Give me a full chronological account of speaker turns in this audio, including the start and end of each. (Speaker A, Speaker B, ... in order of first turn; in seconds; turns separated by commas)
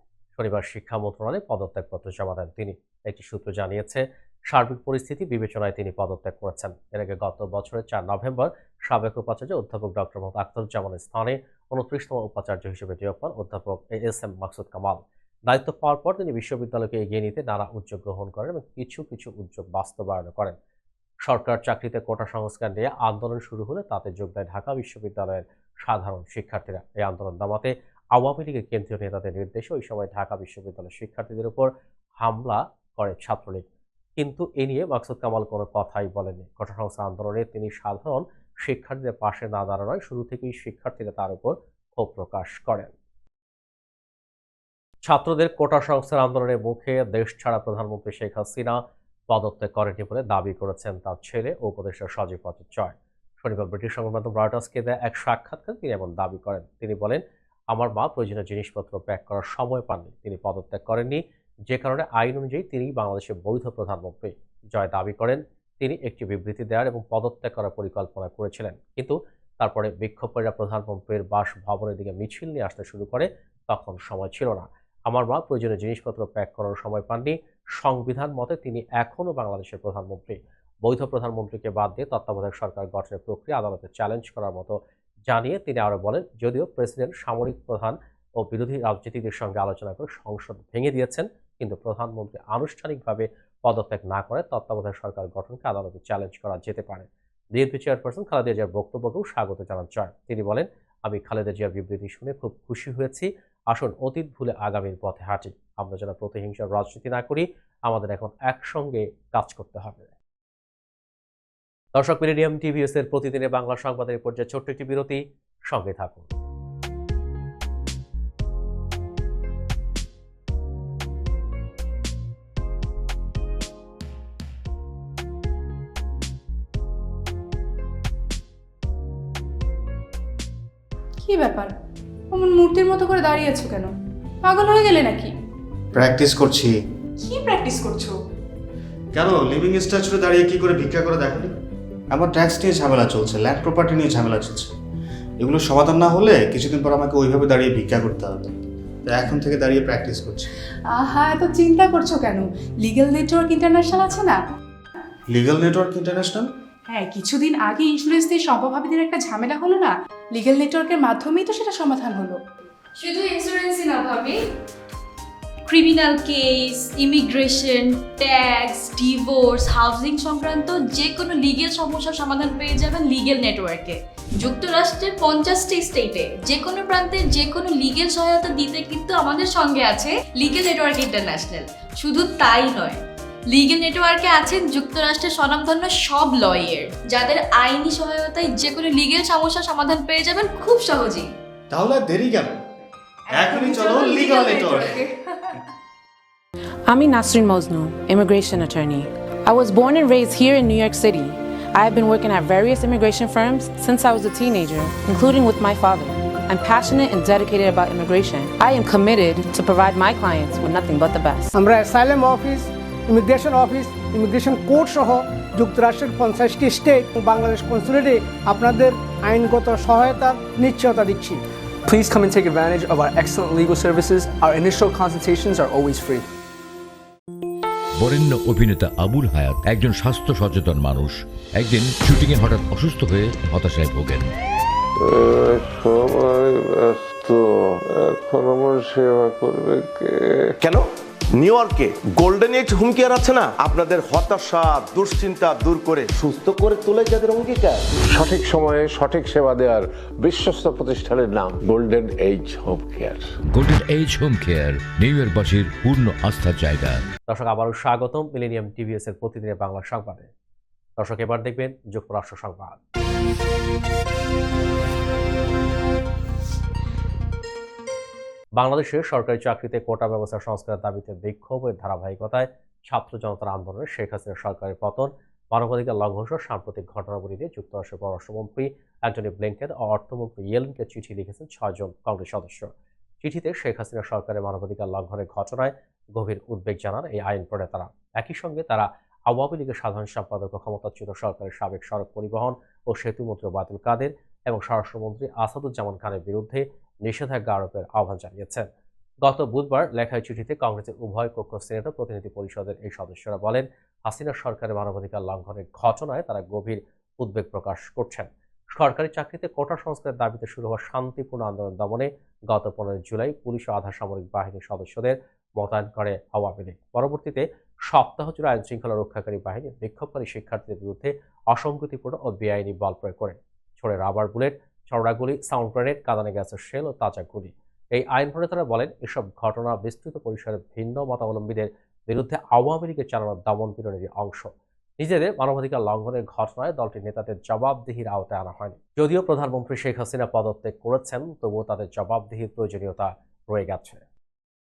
Speaker A: 0.3-20.6, Speaker A: 21.2-31.7, Speaker A: 32.2-33.6, Speaker A: 34.2-42.9, Speaker A: 45.0-110.1, Speaker A: 112.0-116.3, Speaker B: 131.2-131.7, Speaker B: 132.3-133.9, Speaker B: 134.5-135.3, Speaker C: 136.0-136.7, Speaker B: 137.2-138.2, Speaker C: 139.2-141.5, Speaker C: 142.1-144.7, Speaker C: 145.4-148.5, Speaker C: 149.1-150.5, Speaker B: 151.0-154.4, Speaker C: 155.3-156.5, Speaker B: 156.9-162.4, Speaker D: 163.0-164.4, Speaker D: 165.7-183.0, Speaker D: 183.5-191.3, Speaker C: 191.7-192.5, Speaker C: 193.3-195.0, Speaker D: 193.5-195.1, Speaker E: 196.9-211.5, Speaker F: 211.5-221.4, Speaker G: 221.9-226.2, Speaker H: 228.0-234.3, Speaker I: 235.0-240.5, Speaker J: 241.4-247.8, Speaker I: 248.1-253.4, Speaker H: 253.5-257.0, Speaker A: 257.3-260.3, Speaker A: 261.0-262.8, Speaker A: 268.6-282.7, Speaker A: 283.2-298.7, Speaker A: 299.2-344.0